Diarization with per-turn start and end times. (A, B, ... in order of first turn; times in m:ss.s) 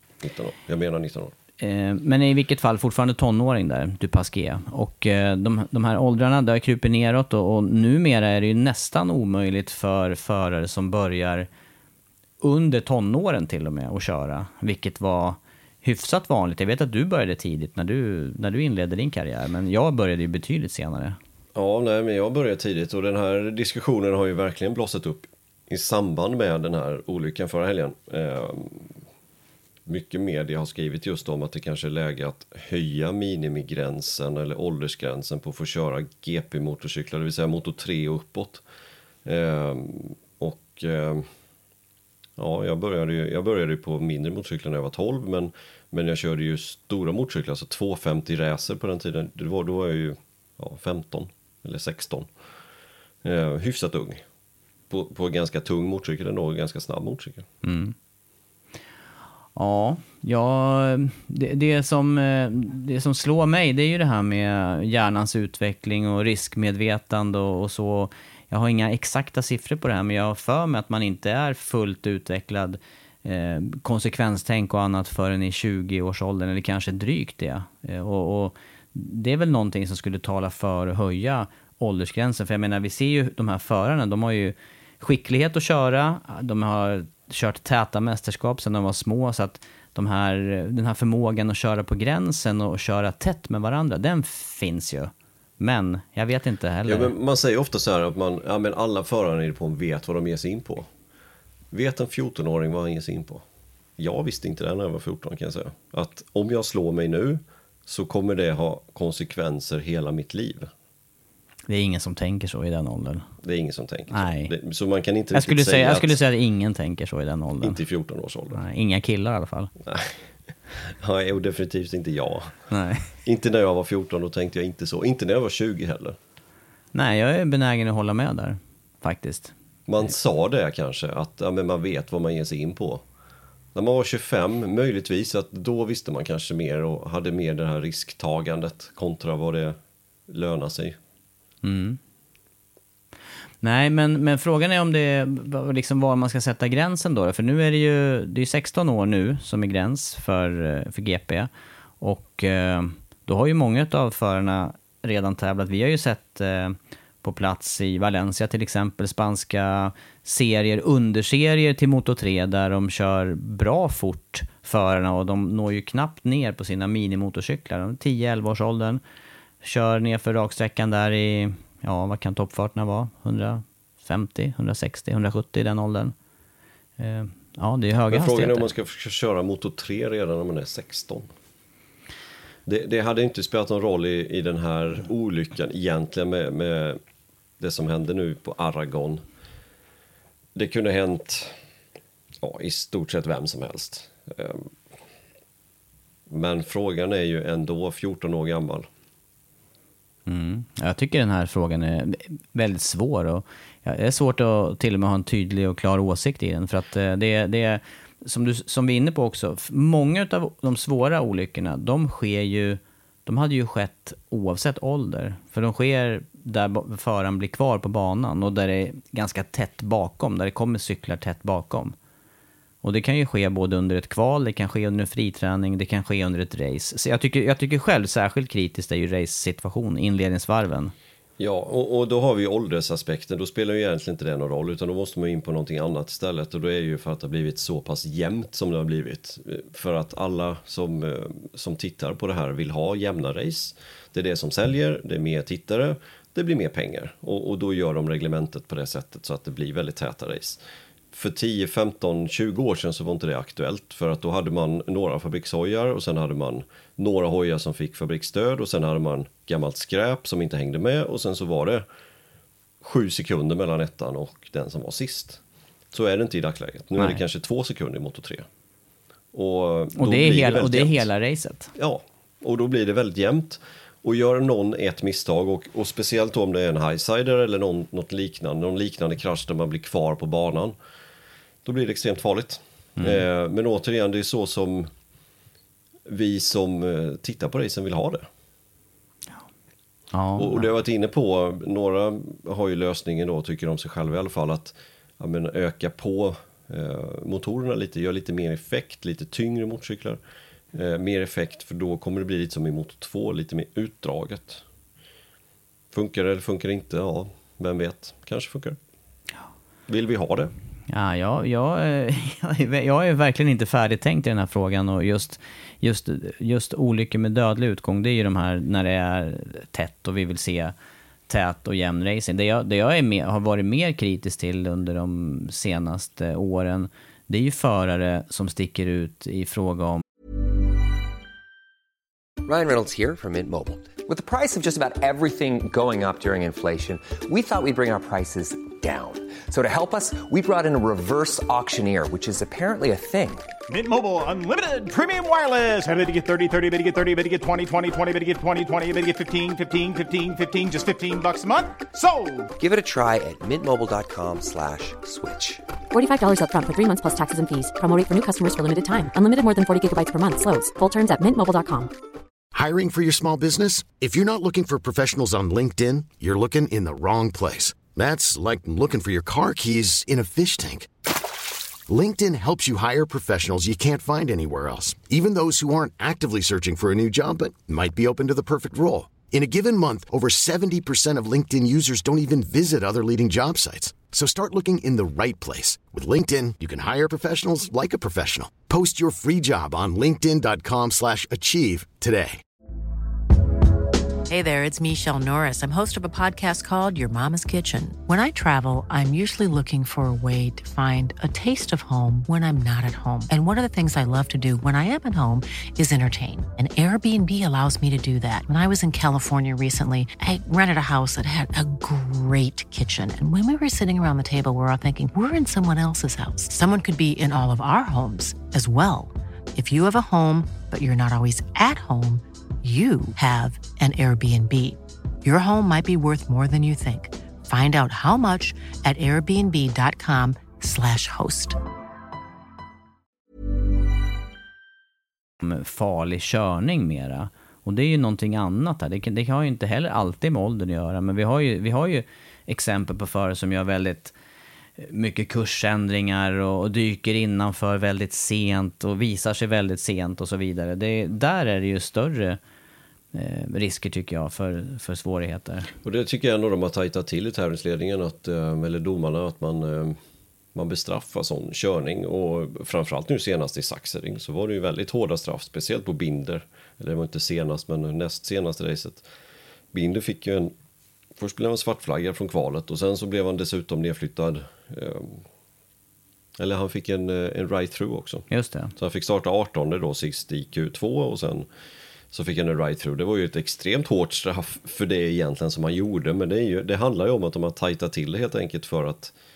0:00.2-0:01.3 A
0:01.6-0:11.5 B
0:12.4-0:21.2 B
0:21.5-0:28.9 A
0:29.8-0:38.6 A
0:39.2-0:41.3 A
0:42.4-0:52.3 A
0:53.2-0:54.2 A
0:54.9-0:57.4 A
0:57.6-0:57.9 B
0:59.6-1:37.1 B
1:36.9-1:40.9 A
1:41.7-1:43.4 A
1:44.0-1:50.7 A
1:51.7-1:53.2 B
1:53.4-1:56.2 A
1:54.1-1:54.5 B
1:55.3-1:57.8 B
1:57.6-1:58.6 A
1:58.5-1:59.7 B
1:59.8-2:02.6 A
2:02.7-2:03.0 B
2:03.2-2:06.2 A
2:06.9-2:09.5 B
2:09.9-2:13.0 A
2:13.7-2:19.8 A
2:20.3-2:21.0 A
2:21.6-2:22.0 B
2:23.6-2:31.5 B
2:32.0-2:49.0 B
2:49.6-2:56.1 B
2:57.0-2:58.7 B
2:58.1-3:01.3 A
3:02.6-3:07.0 A
3:07.6-3:09.2 A
3:10.5-3:11.6 A
3:12.4-3:14.7 A
3:16.3-3:18.9 A
3:20.3-3:41.9 B
3:42.8-3:50.9 B
3:51.4-4:10.6 A
4:11.1-4:21.8 A
4:22.8-4:25.4 A
4:25.9-4:28.5 A
4:29.3-4:31.1 A
4:30.0-4:31.7 B
4:31.7-4:40.7 A
4:41.6-4:44.9 A
4:43.0-4:43.2 B
4:46.0-4:48.2 A
4:50.1-4:50.6 B
4:50.4-5:00.2 A
5:00.7-5:04.6 A
5:05.9-5:08.8 A
5:09.9-5:10.5 A
5:10.9-5:20.7 B
5:21.3-5:30.0 B
5:32.4-5:43.5 C
5:43.7-5:52.5 D
5:52.6-5:55.6 C
5:55.9-6:01.9 E
6:02.5-6:10.9 F
6:11.9-6:32.4 F
6:34.3-7:11.6 G
7:15.4-7:24.1 B
7:24.8-7:32.4 B
7:33.1-7:35.7 B
7:35.8-7:40.0 A
7:40.5-7:49.0 A
7:49.7-7:50.5 A
7:51.2-7:55.2 A
7:56.4-8:01.5 A
7:58.3-7:58.7 B
8:02.1-8:09.1 A